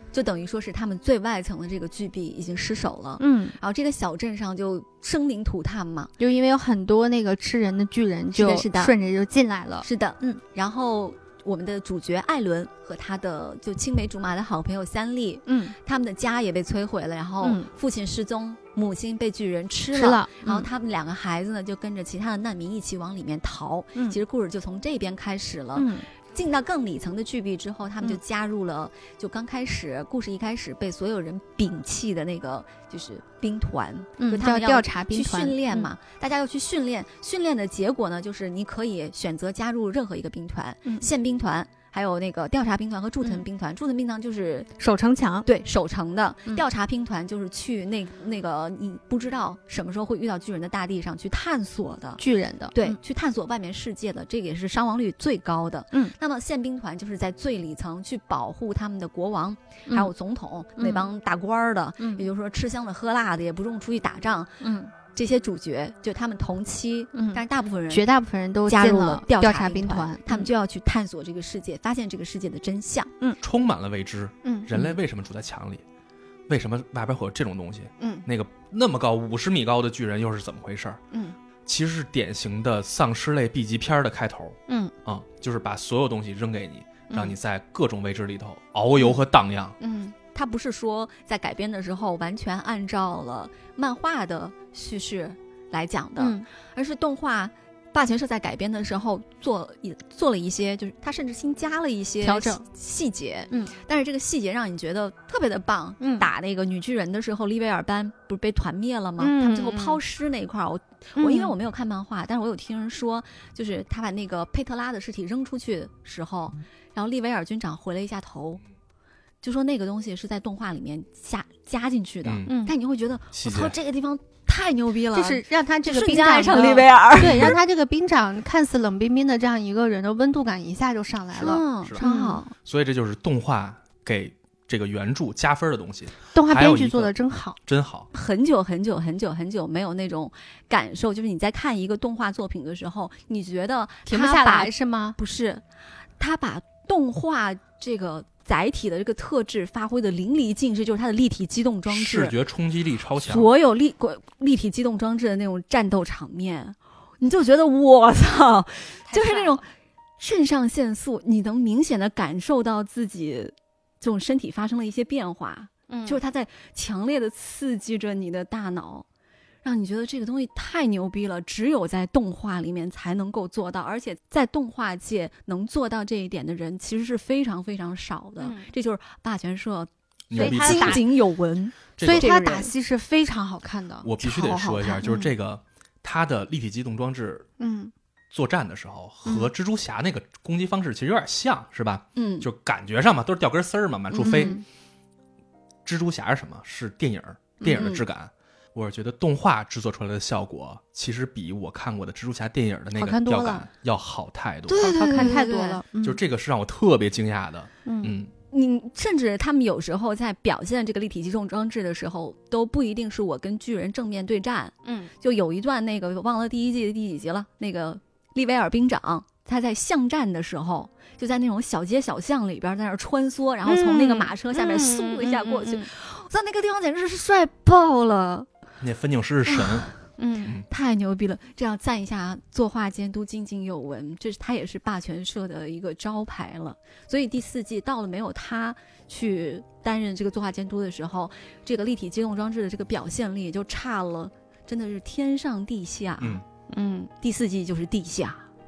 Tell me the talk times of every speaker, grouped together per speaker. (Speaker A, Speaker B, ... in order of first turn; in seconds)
Speaker A: 0.1-6.1, 8.3-8.9, 9.8-44.7, 45.5-52.2, 52.7-68.0, 68.7-73.1, 90.3-118.6, 119.4-127.6, 131.3-132.5, 138.1-145.6, 146.2-152.4, 153.2-159.7, 160.2-169.1, 169.6-182.7, 184.2-185.1, 192.2-192.5, 194.1-194.6, 197.6-198.0, 204.7-205.8, 208.5-228.5, 229.6-229.9, 230.7-246.4, 247.2-248.4
Speaker B: 3.2-3.6, 6.2-10.4, 15.5-15.8, 17.4-17.7, 19.9-20.7, 25.8-26.1, 34.2-35.9, 44.8-45.5, 52.2-53.0, 60.8-61.1, 62.0-62.3, 64.6-64.9, 67.2-70.5, 74.4-75.0, 78.0-78.3, 84.7-84.9, 87.1-87.4, 89.0-89.2, 89.8-90.2, 96.2-96.5, 102.2-102.6, 106.0-106.3, 109.2-110.0, 111.2-111.5, 122.5-122.7, 125.1-132.4, 136.3-137.6, 144.1-145.2, 159.1-159.6, 165.9-166.2, 178.4-178.7, 180.3-181.1, 182.0-184.1, 185.0-185.3, 187.6-187.9, 189.3-189.5, 194.2-194.6, 203.0-203.7, 204.8-206.2, 207.8-208.1, 214.8-215.1, 223.7-225.9, 230.2-230.6, 246.7-247.1
Speaker C: 73.4-75.8, 76.5-81.0, 81.7-89.8, 122.2-122.5, 123.3-123.8, 127.2-127.5, 132.6-137.1, 137.7-138.1, 151.9-153.5, 180.3-181.1, 182.0-182.3, 184.0-187.5, 188.3-194.6, 195.8-205.4, 206.0-208.3, 228.8-229.9